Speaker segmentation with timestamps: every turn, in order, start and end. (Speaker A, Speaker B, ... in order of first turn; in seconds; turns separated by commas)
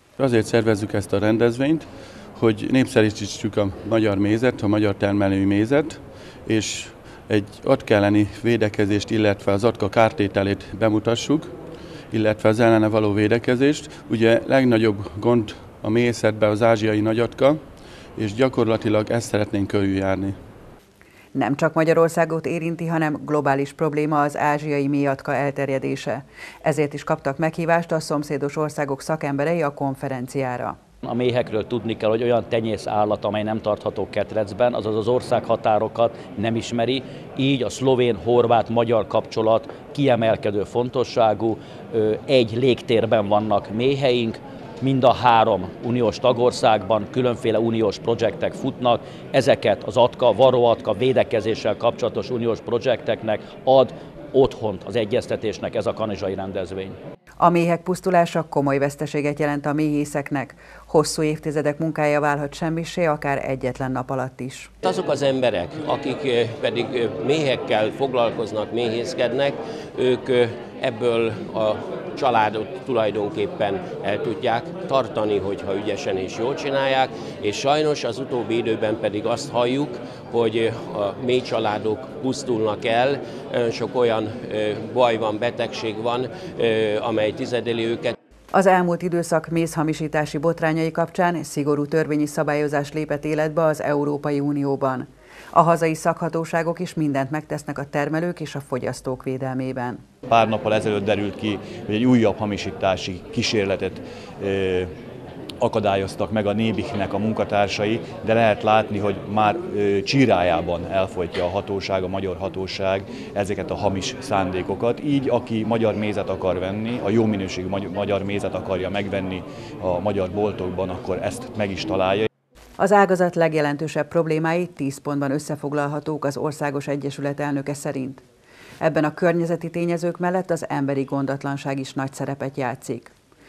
Speaker A: 0.2-11.5, Speaker A: 12.1-17.6, Speaker A: 18.2-20.4, Speaker B: 21.3-30.8, Speaker C: 31.0-57.0, Speaker B: 57.4-64.7, Speaker D: 64.8-88.2, Speaker B: 88.5-100.0, Speaker E: 100.3-104.9, Speaker E: 105.6-122.3, Speaker B: 122.8-128.2, Speaker B: 128.8-133.1